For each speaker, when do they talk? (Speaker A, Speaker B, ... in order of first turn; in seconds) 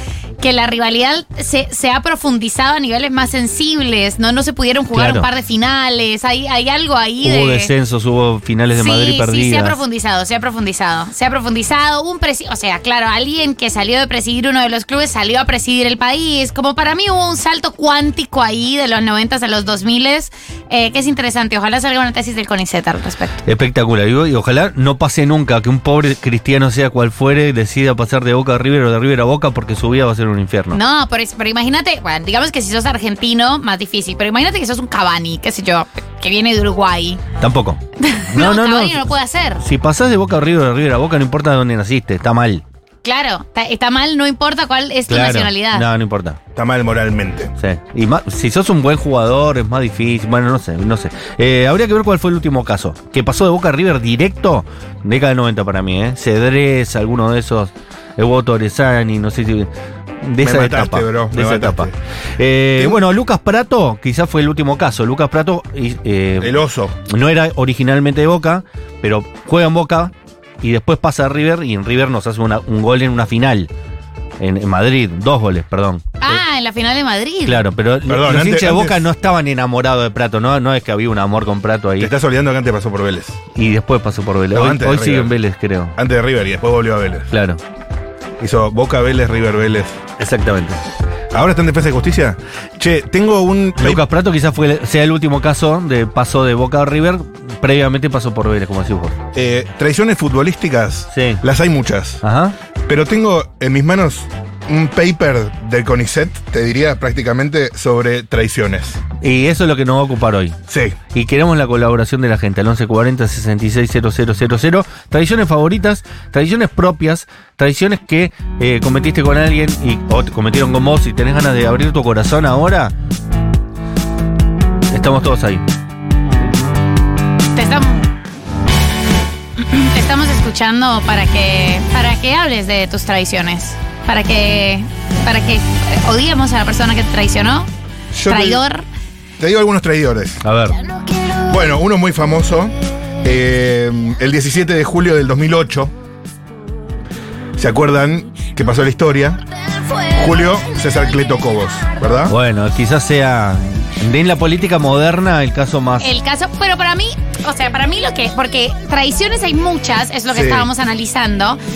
Speaker A: 0.4-7.7, 8.8-23.4, 30.7-37.2, 38.0-39.6, 43.0-45.8, 76.2-77.6, 127.5-128.0, 129.6-137.7, 138.3-138.8, 156.0-161.6
Speaker B: 4.9-5.3, 7.2-9.8, 23.4-30.8, 37.4-39.0, 39.6-42.6, 45.1-46.4, 47.6-59.7, 60.2-66.6, 67.1-73.7, 74.4-76.4, 77.4-82.1, 83.5-86.0, 87.3-87.6, 90.2-90.8, 93.8-99.2, 101.1-101.4, 102.2-102.5, 109.2-110.6, 111.1-122.9, 124.9-125.6, 140.4-140.8, 152.3-156.1
Speaker C: 46.5-47.5, 60.4-61.9, 66.4-66.9, 78.1-79.0, 82.0-83.4, 84.5-85.3, 86.0-87.3, 88.4-90.0, 91.3-94.0, 99.3-102.2, 102.9-109.0, 110.7-111.0, 138.1-138.6, 139.4-140.4, 141.5-145.9, 147.6-149.4, 150.1-152.3, 160.3-160.7